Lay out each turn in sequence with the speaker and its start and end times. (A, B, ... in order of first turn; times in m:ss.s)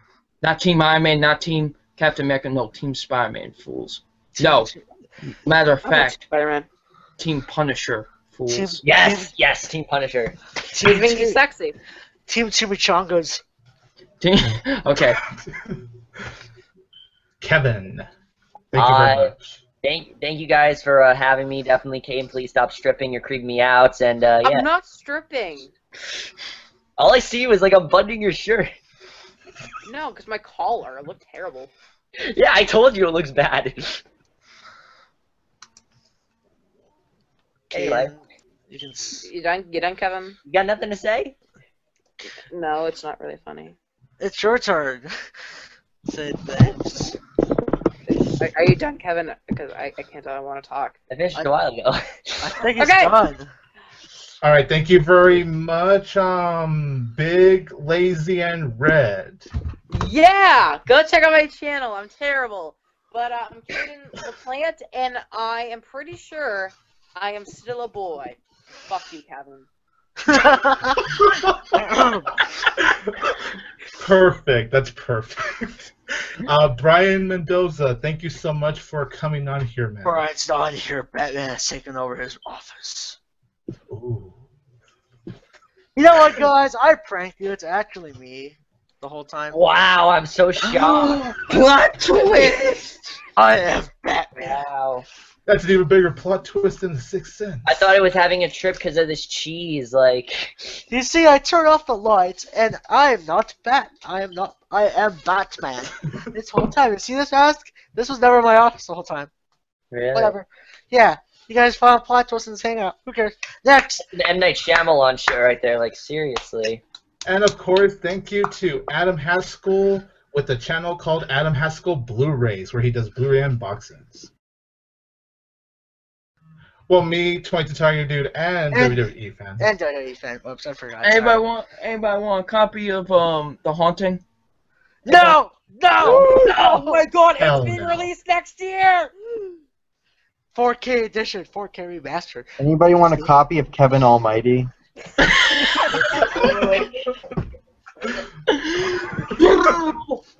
0:00.4-0:04.7 A
0:04.3-0:04.8 B
0:05.4-0:06.2 A
0:05.8-0:06.7 C
0:07.2-0:08.8 A
0:08.5-0:09.3 B
0:08.8-0:10.4 D
0:10.7-0:11.4 B
0:10.8-0:11.8 C
0:12.3-0:13.4 B
0:14.2-0:15.2 A
0:15.0-0:15.8 E
0:17.4-0:18.1 E
0:18.7-0:19.4 E
0:18.8-0:24.7 D
0:24.4-0:25.7 C
0:27.0-0:28.7 D
0:29.8-0:31.7 C
0:32.2-0:34.0 D
0:37.7-0:39.3 B
0:37.7-0:38.1 D
0:39.2-0:40.4 C
0:40.4-0:41.4 D
0:42.5-0:43.8 C
0:44.2-0:45.1 B
0:46.0-0:47.2 B
0:48.1-0:50.9 C
0:51.1-0:52.6 D
0:52.4-0:53.5 B
0:52.8-0:53.2 C
0:54.4-0:59.4 E
0:59.9-1:09.7 C
1:10.2-1:11.0 B
1:11.2-1:11.6 E
1:11.7-1:12.3 B
1:12.8-1:13.3 E
1:14.0-1:20.2 E
1:20.0-1:23.2 B
1:23.9-1:24.4 E
1:26.0-1:29.6 B
1:29.5-1:31.2 D
1:30.6-1:33.0 A
1:33.4-1:33.6 D
1:33.4-1:34.6 B
1:34.4-1:35.0 D
1:35.4-1:38.0 E
1:37.6-1:40.8 D
1:40.9-1:49.3 B
1:49.9-1:50.3 D
1:50.1-1:54.0 B
1:54.1-1:56.8 D
1:57.2-2:04.3 E
2:06.9-2:09.6 E
2:08.7-2:09.0 B
2:09.6-2:11.5 B
2:11.0-2:14.2 A
2:15.0-2:17.0 B
2:15.0-2:15.4 A
2:16.0-2:17.2 A
2:16.1-2:19.1 C
2:17.4-2:18.1 E
2:20.5-2:22.6 B
2:22.6-2:24.7 F
2:25.3-2:26.9 A
2:26.0-2:26.4 C
2:28.5-2:30.2 A